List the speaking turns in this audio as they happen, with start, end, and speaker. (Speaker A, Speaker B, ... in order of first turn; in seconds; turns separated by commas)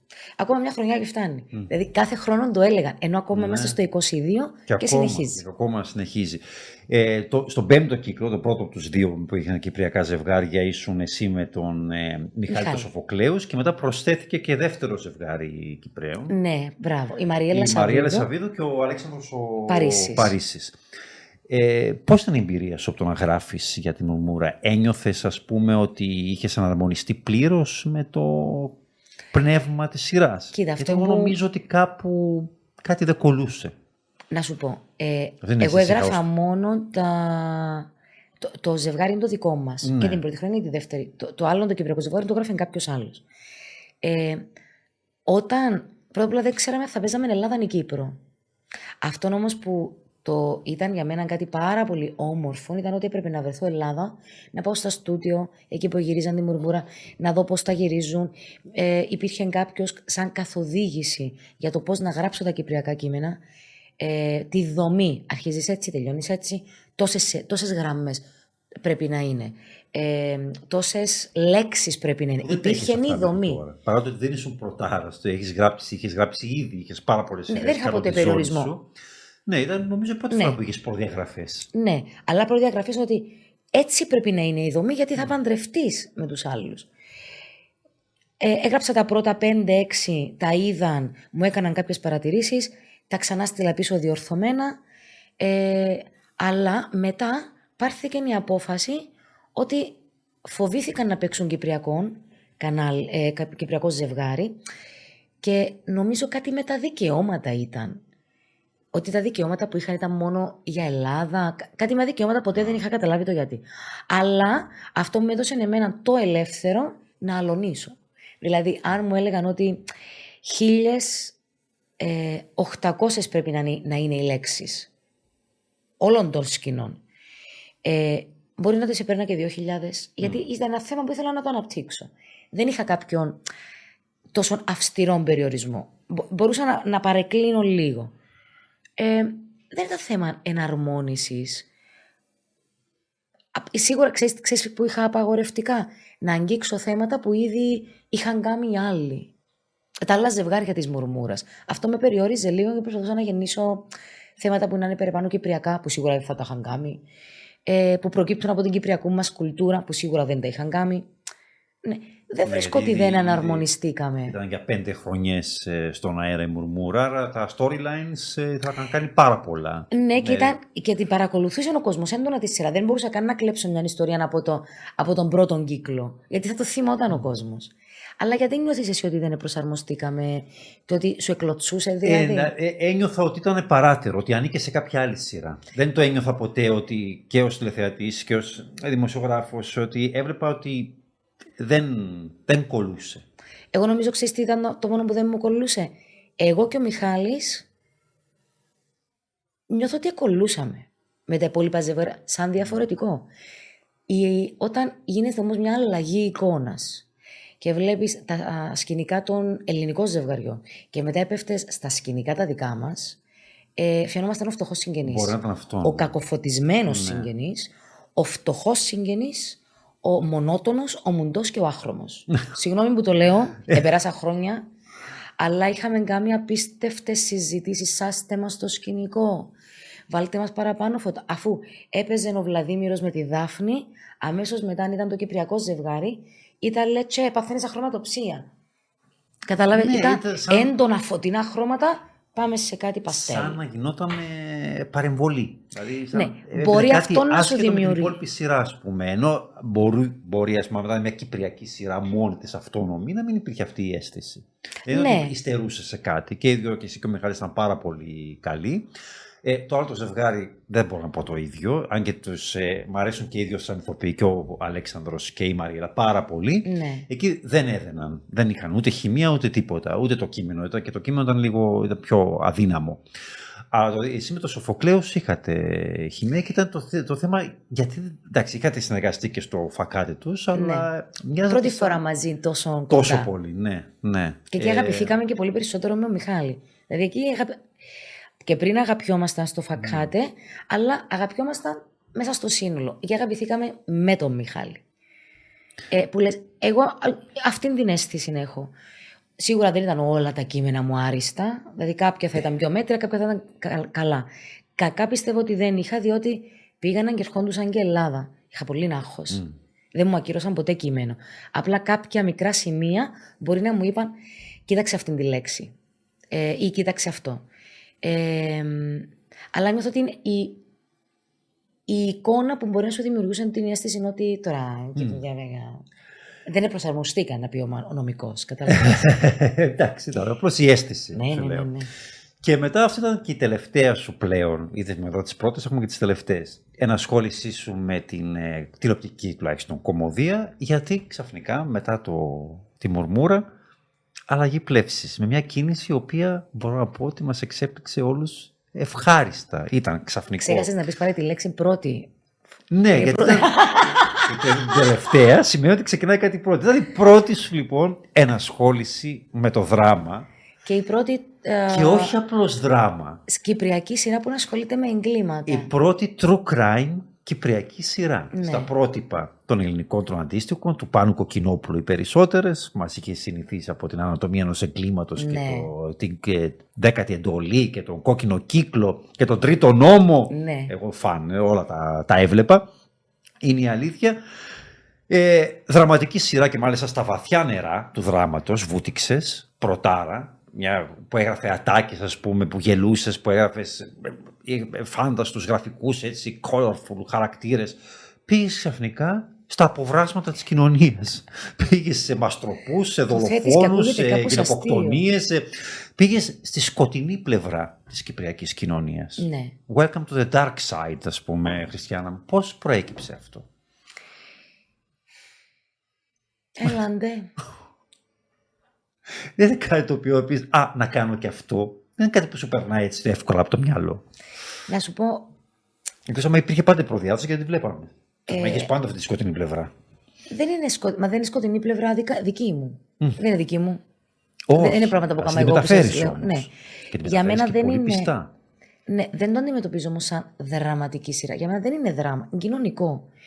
Speaker A: 0.4-5.4, Speaker B: 3.3-3.8, Speaker B: 4.7-16.4, Speaker A: 12.5-12.9, Speaker A: 16.3-18.3, Speaker B: 17.5-20.8, Speaker A: 19.7-20.4, Speaker B: 21.5-28.8, Speaker B: 29.3-33.7, Speaker A: 30.5-31.4, Speaker A: 34.3-37.9, Speaker B: 35.4-36.2, Speaker A: 38.4-43.2, Speaker B: 39.8-40.2, Speaker A: 44.0-44.5, Speaker A: 45.3-48.2, Speaker A: 49.0-63.4, Speaker A: 64.0-68.3, Speaker A: 68.8-73.6, Speaker B: 72.4-78.9, Speaker A: 77.5-78.7, Speaker B: 79.5-81.7, Speaker A: 80.3-80.6, Speaker A: 81.7-86.9, Speaker A: 88.4-94.8, Speaker A: 95.4-104.6, Speaker A: 105.4-108.0, Speaker A: 108.9-119.9, Speaker A: 120.4-121.4, Speaker A: 122.0-124.9, Speaker A: 126.0-127.0, Speaker A: 127.8-133.4, Speaker A: 134.3-138.1, Speaker A: 139.0-141.7, Speaker A: 143.6-149.3, Speaker A: 150.0-157.0, Speaker A: 157.7-161.1, Speaker A: 161.8-164.4, Speaker B: 162.4-163.7, Speaker B: 164.3-170.6, Speaker A: 169.9-182.5, Speaker B: 182.0-191.0, Speaker B: 191.6-193.2, Speaker A: 193.7-197.7, Speaker A: 199.7-203.3, Speaker A: 204.1-207.1, Speaker A: 207.6-213.2, Speaker A: 213.8-224.6, Speaker B: 215.0-216.1, Speaker B: 216.9-217.3, Speaker A: 225.4-229.5, Speaker A: 230.1-238.5, Speaker A: 239.5-243.6, Speaker B: 239.7-240.7, Speaker B: 243.1-258.9, Speaker A: 246.1-248.2, Speaker A: 254.9-255.3, Speaker B: 259.4-273.0, Speaker A: 266.6-267.1, Speaker B: 273.7-282.0, Speaker A: 280.5-280.9, Speaker A: 281.5-283.3, Speaker B: 282.9-285.2, Speaker A: 284.5-287.6, Speaker A: 288.4-294.8, Speaker B: 289.8-290.1, Speaker A: 295.9-298.7, Speaker A: 299.4-314.1, Speaker A: 314.7-315.7, Speaker A: 316.3-317.4, Speaker A: 318.0-320.6, Speaker A: 321.9-325.9, Speaker B: 325.0-325.2, Speaker A: 326.5-329.1, Speaker B: 328.7-331.7, Speaker A: 331.1-331.9, Speaker B: 332.4-343.5, Speaker B: 344.3-350.7, Speaker A: 350.4-352.1, Speaker B: 352.7-360.3, Speaker A: 352.9-354.8, Speaker A: 360.7-362.1, Speaker B: 361.7-363.2, Speaker A: 363.3-365.7, Speaker B: 365.5-382.6, Speaker A: 368.3-368.7, Speaker A: 375.2-375.7, Speaker A: 380.3-380.7, Speaker B: 383.4-384.2, Speaker B: 385.1-413.5, Speaker A: 403.1-405.0, Speaker A: 409.2-409.6, Speaker A: 416.6-417.3, Speaker B: 419.4-424.0, Speaker A: 424.7-425.3, Speaker B: 426.1-429.7, Speaker A: 428.3-428.7, Speaker A: 430.3-433.8, Speaker B: 434.5-438.3, Speaker A: 434.6-436.5, Speaker A: 437.0-438.1, Speaker A: 438.9-443.1